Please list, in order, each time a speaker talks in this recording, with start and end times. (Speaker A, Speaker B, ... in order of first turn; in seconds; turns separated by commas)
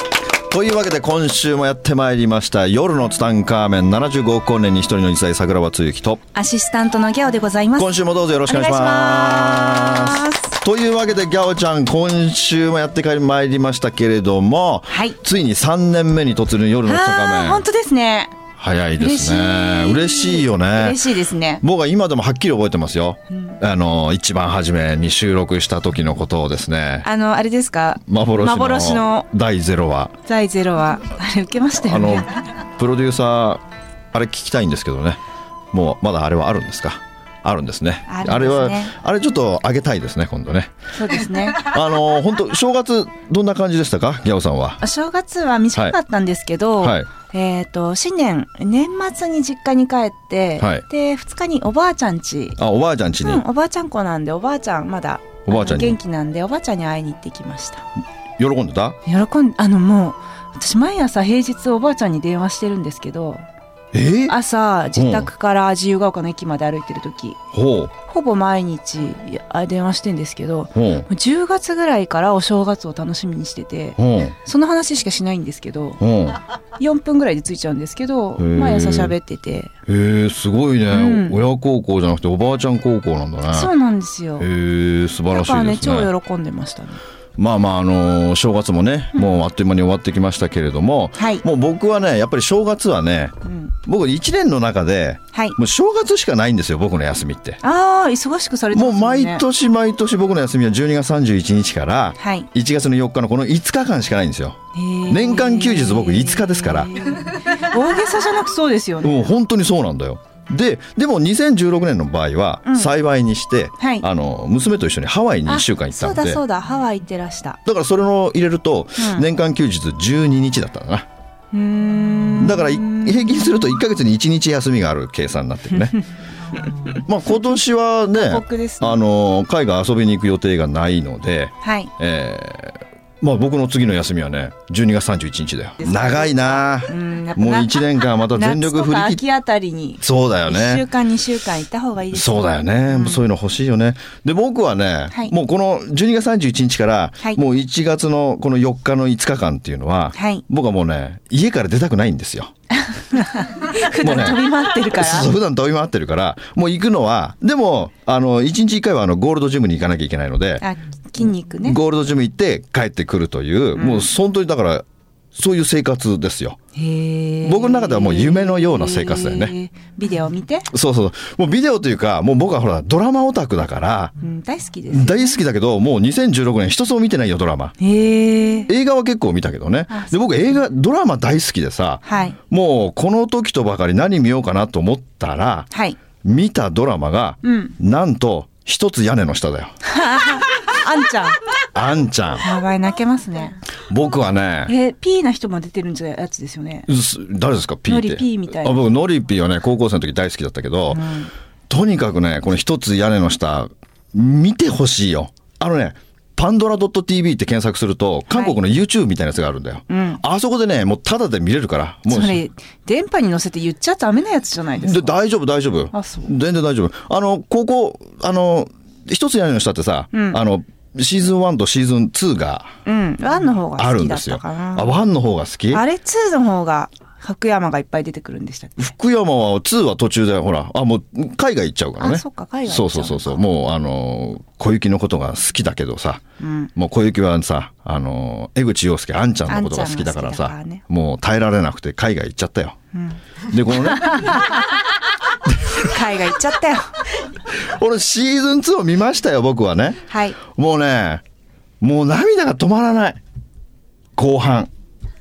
Speaker A: 0.5-6.2, Speaker B: 6.3-10.5, Speaker A: 7.8-17.6, Speaker B: 14.9-15.2, Speaker B: 16.9-18.4, Speaker A: 18.6-21.0, Speaker B: 19.0-21.6, Speaker A: 21.6-27.1, Speaker B: 27.0-29.3, Speaker A: 28.1-30.1, Speaker B: 30.2-32.5, Speaker A: 31.8-35.2, Speaker A: 35.7-40.7, Speaker B: 38.1-39.0, Speaker B: 40.9-41.7, Speaker A: 41.5-44.8, Speaker B: 44.8-52.6, Speaker A: 46.8-47.1, Speaker A: 50.6-50.8, Speaker A: 52.6-53.5, Speaker B: 53.2-57.9, Speaker A: 55.5-56.0, Speaker A: 58.4-59.0, Speaker B: 59.1-63.4, Speaker A: 63.9-64.4, Speaker B: 64.3-67.4, Speaker A: 65.0-65.3, Speaker A: 67.5-67.9, Speaker B: 68.1-76.0, Speaker A: 70.7-71.1, Speaker A: 74.0-74.4, Speaker A: 76.0-76.4, Speaker B: 76.8-79.7, Speaker A: 78.4-79.2, Speaker A: 79.9-83.7, Speaker B: 80.9-81.4, Speaker B: 83.5-84.5, Speaker A: 84.4-86.1, Speaker B: 85.3-87.0, Speaker A: 87.4-97.6, Speaker B: 91.2-91.4, Speaker B: 93.5-93.7, Speaker B: 97.6-99.4, Speaker A: 98.7-107.0, Speaker B: 102.2-102.5, Speaker B: 104.7-109.3, Speaker A: 109.0-116.4, Speaker B: 112.7-112.9, Speaker B: 113.8-114.1, Speaker B: 115.5-117.6, Speaker A: 117.7-121.1, Speaker B: 119.0-119.2, Speaker B: 121.5-123.7, Speaker A: 122.3-126.0, Speaker A: 127.0-139.2, Speaker B: 128.1-129.0, Speaker B: 131.6-131.9, Speaker B: 135.8-143.2, Speaker A: 140.0-140.8, Speaker A: 142.1-152.5, Speaker B: 150.2-150.4, Speaker B: 152.9-155.3, Speaker A: 153.8-160.7, Speaker B: 160.6-161.8, Speaker A: 161.6-166.6, Speaker B: 163.8-164.1, Speaker B: 166.8-170.7, Speaker A: 167.4-169.6, Speaker A: 170.7-174.1, Speaker B: 174.2-175.4, Speaker A: 174.9-177.8, Speaker B: 177.8-178.7, Speaker A: 178.7-185.7, Speaker B: 179.9-180.2, Speaker B: 182.1-182.4, Speaker B: 185.7-186.0, Speaker A: 186.2-189.7, Speaker B: 187.4-187.7, Speaker B: 189.8-191.4, Speaker A: 191.7-192.5, Speaker B: 192.4-193.6, Speaker A: 193.9-194.7, Speaker B: 194.7-196.9, Speaker A: 196.9-201.1, Speaker B: 197.9-198.8, Speaker B: 200.9-201.3, Speaker A: 201.7-212.4, Speaker B: 208.3-208.6, Speaker B: 209.9-210.2, Speaker B: 212.1-215.1, Speaker A: 214.8-222.7, Speaker B: 215.9-216.3, Speaker B: 220.1-220.4, Speaker B: 222.8-225.0, Speaker A: 223.8-225.8, Speaker B: 225.7-228.9, Speaker A: 228.8-236.2, Speaker B: 232.0-233.4, Speaker B: 236.4-236.7, Speaker A: 236.8-242.8, Speaker B: 239.5-240.8, Speaker B: 242.9-243.2, Speaker A: 243.5-244.4, Speaker B: 244.0-244.4, Speaker A: 245.5-245.9, Speaker B: 245.7-246.9, Speaker A: 247.5-251.2, Speaker B: 250.1-250.4, Speaker A: 251.8-253.2, Speaker A: 254.2-254.7